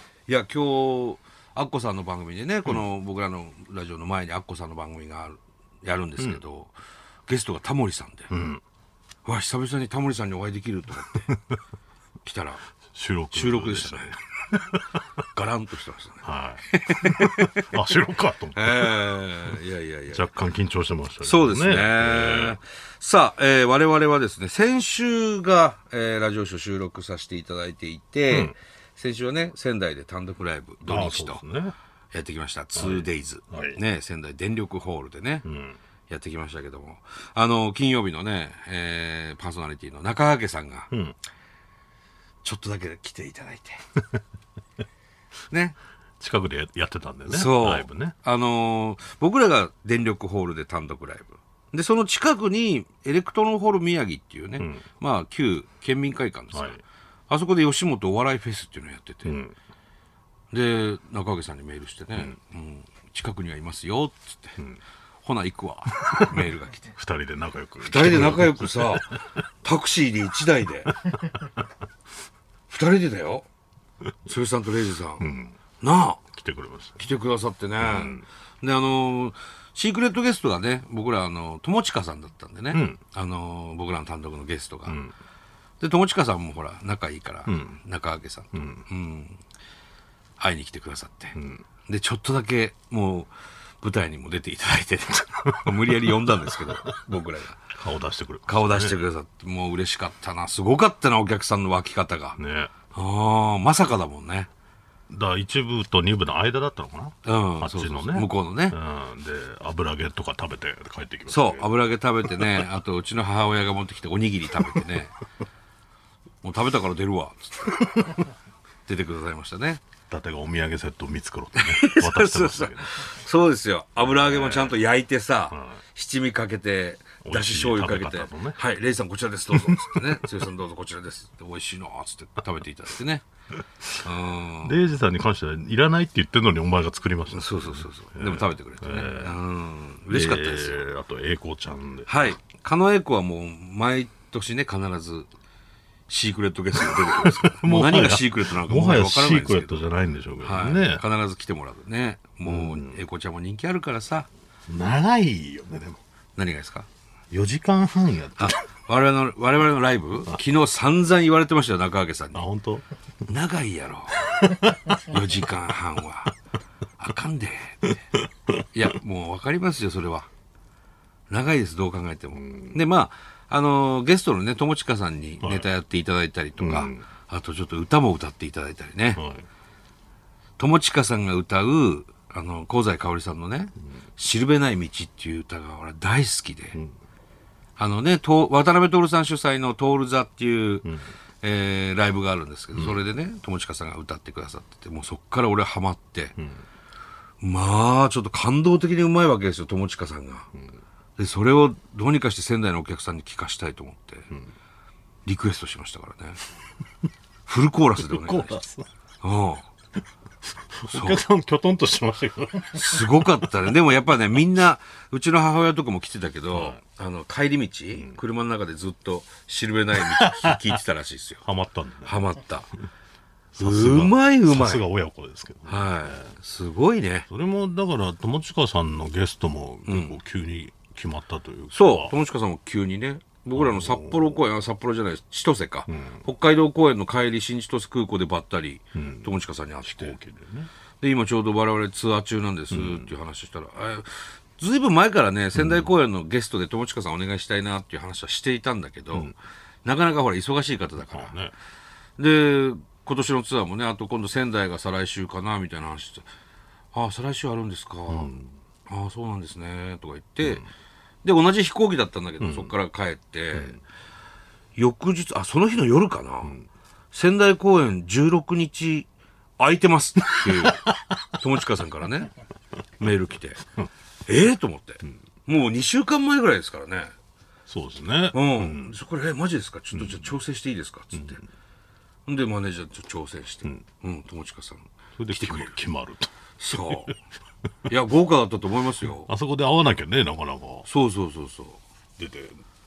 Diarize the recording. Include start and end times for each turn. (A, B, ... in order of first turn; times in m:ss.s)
0:00.3-0:06.7 A
0:07.3-0:08.3 A
0:08.3-0:08.6 B
0:09.2-0:11.3 A
0:12.2-0:12.6 A
0:12.9-0:14.8 B
0:13.3-0:14.2 A
0:15.3-0:17.7 A
0:16.2-0:19.1 B
0:18.5-0:20.3 A
0:20.1-0:22.6 B
0:21.2-0:31.4 A
0:28.3-0:28.5 B
0:30.8-0:31.7 B
0:32.1-0:35.4 A
0:32.7-0:33.8 B
0:35.4-0:35.8 B
0:36.1-0:40.9 A
0:40.9-0:41.2 B
0:42.4-0:43.8 A
0:45.5-0:45.8 A
0:46.2-0:48.1 B
0:47.3-0:59.4 A
0:56.5-0:56.8 B
0:59.2-0:59.5 B
1:00.5-1:04.6 A
1:05.2-1:06.9 A
1:06.0-1:06.4 B
1:07.0-1:09.2 B
1:07.8-1:11.0 A
1:12.7-1:13.4 A
1:14.2-1:16.2 A
1:15.2-1:15.5 B
1:16.3-1:17.0 B
1:17.0-1:25.0 A
1:17.8-1:18.2 B
1:22.7-1:23.0 B
1:24.9-1:25.1 B
1:25.8-1:29.4 A
1:27.5-1:27.8 B
1:28.5-1:28.8 B
1:30.4-1:37.7 A
1:31.4-1:31.6 B
1:35.5-1:36.1 B
1:37.7-1:39.0 B
1:38.5-1:42.4 A
1:42.4-1:42.7 B
1:42.9-1:44.5 A
1:45.1-1:51.7 B
1:47.2-1:48.8 A
1:51.3-1:55.2 A
1:52.2-1:52.6 B
1:56.4-1:57.9 A
1:58.8-1:59.8 A
2:00.1-2:03.1 B
2:01.5-2:13.2 A
2:04.0-2:04.8 B
2:05.5-2:05.8 B
2:07.2-2:08.6 B
2:09.5-2:10.2 B
2:14.0-2:14.8 A
2:14.6-2:19.3 B
2:17.3-2:20.8 A
2:20.1-2:22.4 B
2:22.1-2:25.3 A
2:26.1-2:29.9 A
2:26.8-2:31.0 B
2:30.4-2:34.3 A
2:32.4-2:33.0 B
2:34.7-2:36.0 B
2:36.4-2:36.9 A
2:37.3-2:38.6 B
2:38.4-2:42.4 A
2:42.3-2:42.8 B
2:43.3-2:46.3 A
2:44.2-2:44.9 B
2:47.0-2:47.9 A
2:47.8-2:48.6 B
2:48.7-2:50.3 A
2:51.3-2:59.2 A
2:52.4-2:52.8 B
2:55.4-2:55.7 B
2:56.6-2:57.0 B
2:59.2-2:59.4 B
3:00.6-3:06.8 A
3:07.8-3:10.9 A
3:11.4-3:16.4 A
3:16.4-3:16.6 B
3:17.4-3:20.5 A
3:21.2-3:24.3 A
3:25.2-3:26.4 A
3:27.5-3:28.6 A
3:28.0-3:28.9 B
3:29.2-3:29.7 A
3:30.8-3:33.7 B
3:30.9-3:31.2 A
3:32.7-3:41.4 A
3:36.5-3:36.8 B
3:40.2-3:40.7 B
3:41.4-3:42.3 B
3:42.0-3:42.7 A
3:43.5-3:46.3 B
3:43.6-3:44.8 A
3:45.7-3:47.3 A
3:47.3-3:52.1 B
3:49.9-3:50.1 A
3:51.7-4:00.2 A
3:53.5-3:54.3 B
3:55.9-3:56.2 B
3:59.0-3:59.3 B
3:59.8-4:00.7 B
4:01.0-4:09.3 A
4:02.7-4:03.1 B
4:05.6-4:05.9 B
4:09.8-4:11.4 A
4:11.1-4:11.5 B
4:12.2-4:16.2 A
4:16.9-4:18.3 A
4:18.1-4:18.5 B
4:18.9-4:20.6 A
4:21.2-4:23.8 A
4:22.4-4:22.7 B
4:24.8-4:26.6 A
4:27.1-4:32.3 A
4:30.3-4:30.9 B
4:33.0-4:33.6 A
4:34.3-4:37.1 A
4:37.7-4:38.9 B
4:38.3-4:41.4 A
4:39.9-4:40.4 B
4:41.1-4:41.4 B
4:42.3-4:45.7 A
4:45.2-4:46.3 B
4:46.6-4:47.1 A
4:46.8-4:47.1 B
4:47.9-4:49.3 A
4:49.2-4:50.9 B
4:50.8-4:51.8 A
4:52.2-4:52.6 B